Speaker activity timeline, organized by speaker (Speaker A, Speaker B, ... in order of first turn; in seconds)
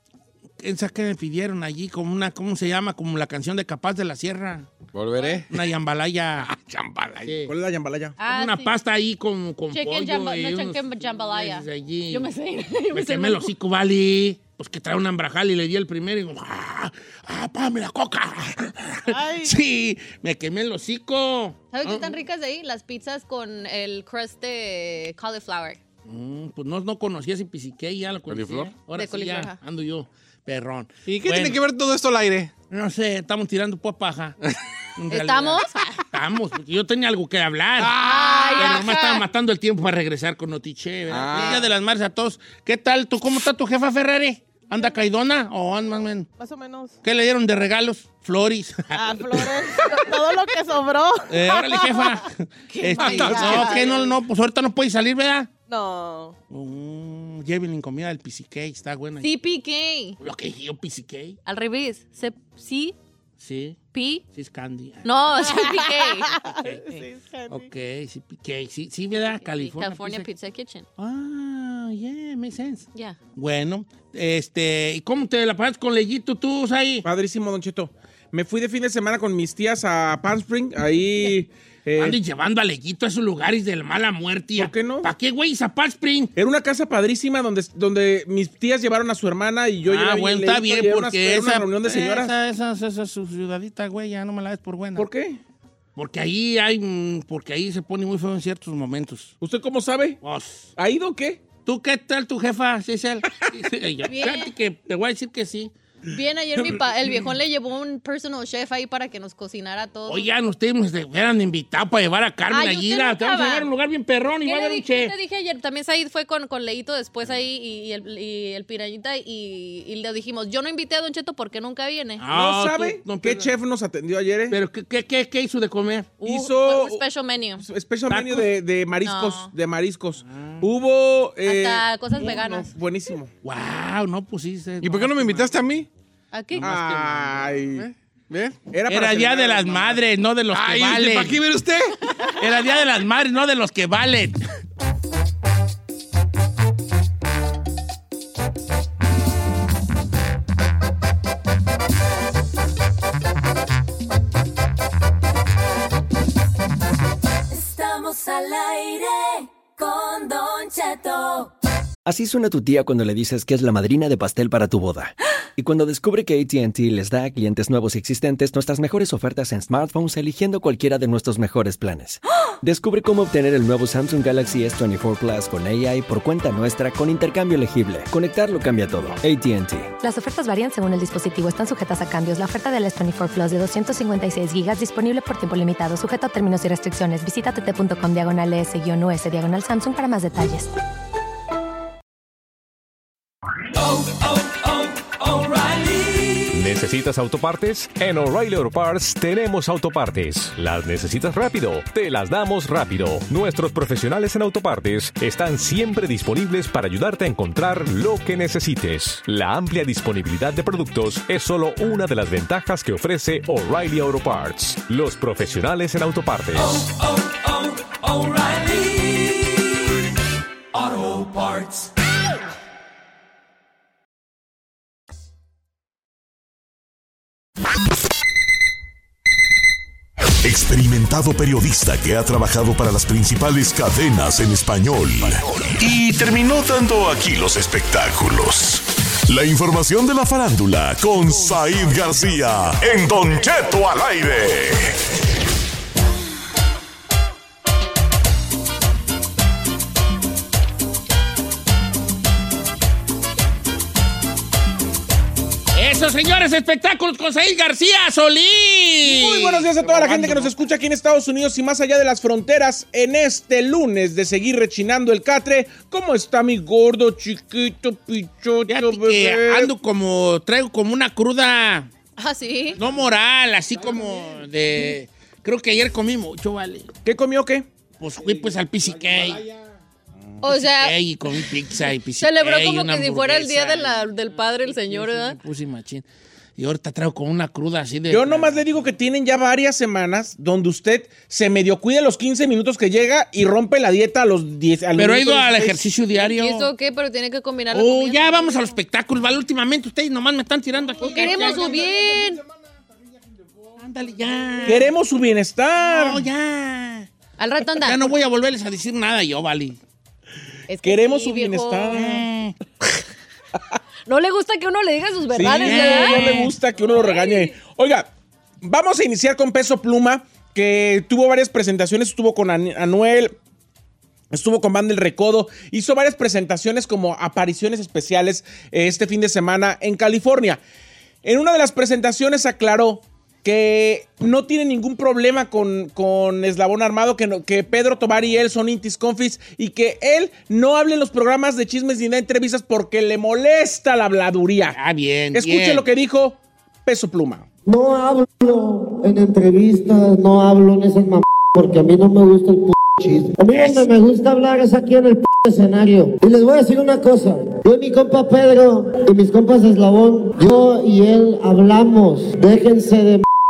Speaker A: 0.6-4.7, 5.5-6.5, 7.2-7.5, 8.2-12.3, 12.9-22.2, 26.1-31.6, 32.7-34.4, 35.0-38.0, 38.5-46.3, 47.0-49.6, 51.3-55.5, 56.5-59.3, 60.2-61.4, 63.4-63.8, 64.3-65.6, 66.5-70.3, 71.0-77.1, 82.0-86.3, 89.9-95.1, 96.0-99.3, 100.2-100.7, 101.7-105.7, 110.1-115.1, 122.2-123.5, 124.5-126.1, 128.1-128.5, 130.2-130.7, 133.4-135.6, 136.5-137.4, 138.9-141.4, 142.3-144.4, 255.7-260.5, 268.7-271.9, 272.8-276.9, 278.0-279.4, 280.5-286.1, 286.6-288.6, 295.0-296.7, 297.7-301.9, 303.8-304.9, 305.8-307.1, 307.7-309.8, 311.9-312.6, 315.4-316.5, 344.7-345.9, 353.5-353.9
Speaker B: 4.9-5.6, 6.4-7.4, 28.3-28.8, 31.1-32.5, 37.8-38.7, 41.1-41.7, 53.0-53.8, 134.8-135.9, 137.8-138.6, 140.5-142.0, 279.1-279.5, 300.9-302.4
Speaker C: 7.5-8.2, 77.0-82.2, 84.6-85.1, 86.4-92.3, 95.0-95.4, 99.4-100.2, 100.8-101.4, 122.3-124.6, 126.2-127.0, 127.6-133.3, 136.6-137.9, 138.7-140.0, 259.0-269.7, 277.1-277.7, 288.1-295.8, 304.6-306.3, 310.8-312.3, 315.3-318.1, 318.6-323.4, 324.3-330.6, 331.2-344.8, 345.3-347.5
Speaker D: 8.2-8.7, 9.7-13.5, 21.7-25.8, 28.9-29.6, 35.1-36.0, 38.0-39.2, 52.8-53.6, 59.2-60.2, 61.5-63.0, 63.9-64.2, 65.0-66.4, 69.2-70.9, 104.1-104.5, 106.1-110.3, 112.5-113.7, 114.5-122.2, 126.2-127.6, 129.0-129.5, 131.4-132.7, 136.3-136.7, 272.2-272.8, 280.4-281.0, 282.2-285.4, 296.1-298.8, 301.0-302.4, 307.4-308.1, 310.7-312.0, 314.1-317.5
Speaker E: 19.1-19.6, 44.7-45.0, 46.4-47.0, 48.9-52.2, 53.1-54.2, 55.7-56.4, 65.4-67.7
Speaker F: 157.5-161.5, 195.3-196.3, 217.2-219.5, 220.8-221.9
Speaker G: 162.1-179.9
Speaker H: 180.0-190.7
Speaker I: 196.5-216.8
Speaker J: 230.4-245.0
Speaker K: 347.6-363.2